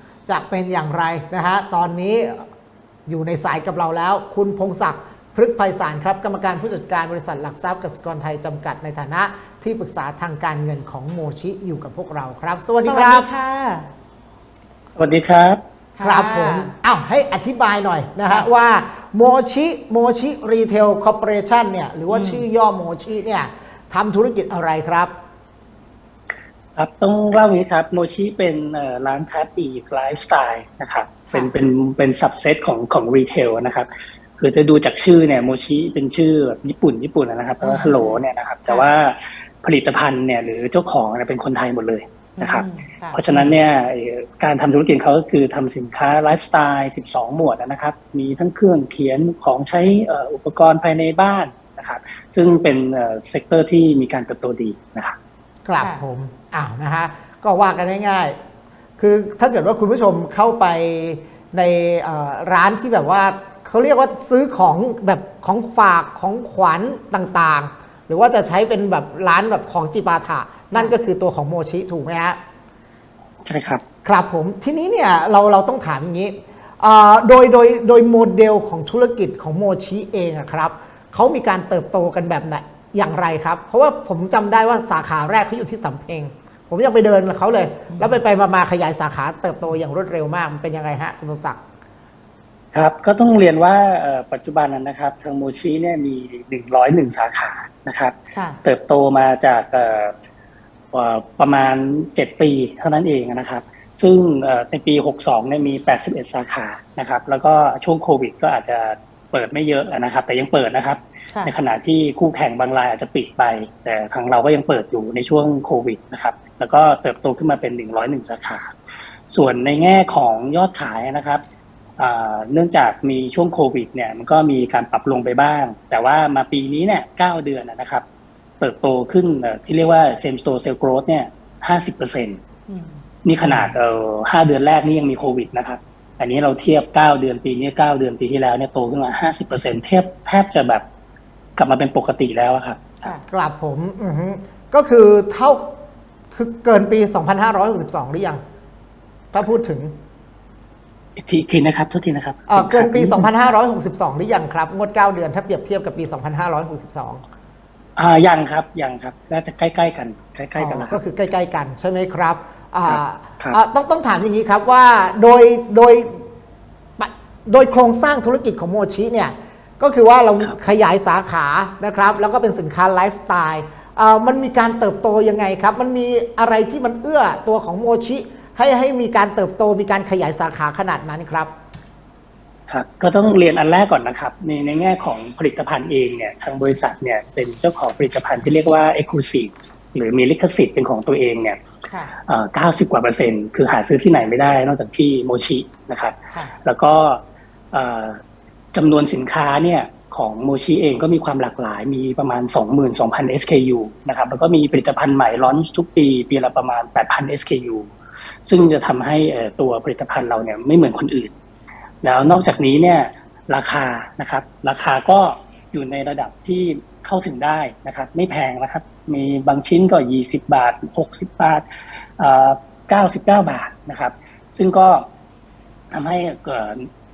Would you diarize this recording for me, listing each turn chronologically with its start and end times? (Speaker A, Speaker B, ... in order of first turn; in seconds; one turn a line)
Speaker A: 0.3-2.5
Speaker A: 3.1-13.3
Speaker B: 12.8-13.9
Speaker C: 15.0-15.6
Speaker B: 16.0-16.7
Speaker A: 16.0-25.1
Speaker B: 22.1-22.4
Speaker C: 26.8-55.2
Speaker B: 37.6-38.9
Speaker B: 42.4-43.6
Speaker A: 55.7-58.4
Speaker B: 55.8-56.0
Speaker A: 59.0-72.4
Speaker C: 73.5-73.8
Speaker A: 74.0-91.6
Speaker B: 87.9-88.2
Speaker C: 92.7-100.1
Speaker B: 98.3-98.6
Speaker C: 100.9-118.7
Speaker C: 119.3-121.4
Speaker C: 122.0-128.1
Speaker C: 128.6-132.4
Speaker B: 132.7-133.0
Speaker C: 133.2-140.8
Speaker A: 133.4-133.8
Speaker C: 141.6-143.1
Speaker A: 143.3-145.7
Speaker A: 146.3-148.4
Speaker A: 149.3-149.9
Speaker C: 151.2-153.3
Speaker A: 152.5-157.2
Speaker C: 158.0-161.0
Speaker A: 160.6-166.2
Speaker C: 162.9-163.6
Speaker A: 167.0-181.5
Speaker C: 182.7-191.6
Speaker B: 191.9-192.2
Speaker C: 192.2-197.2
Speaker C: 197.7-198.2
Speaker C: 198.7-207.9
Speaker C: 208.5-211.3
Speaker C: 212.0-221.6
Speaker C: 222.2-225.1
Speaker C: 225.9-226.9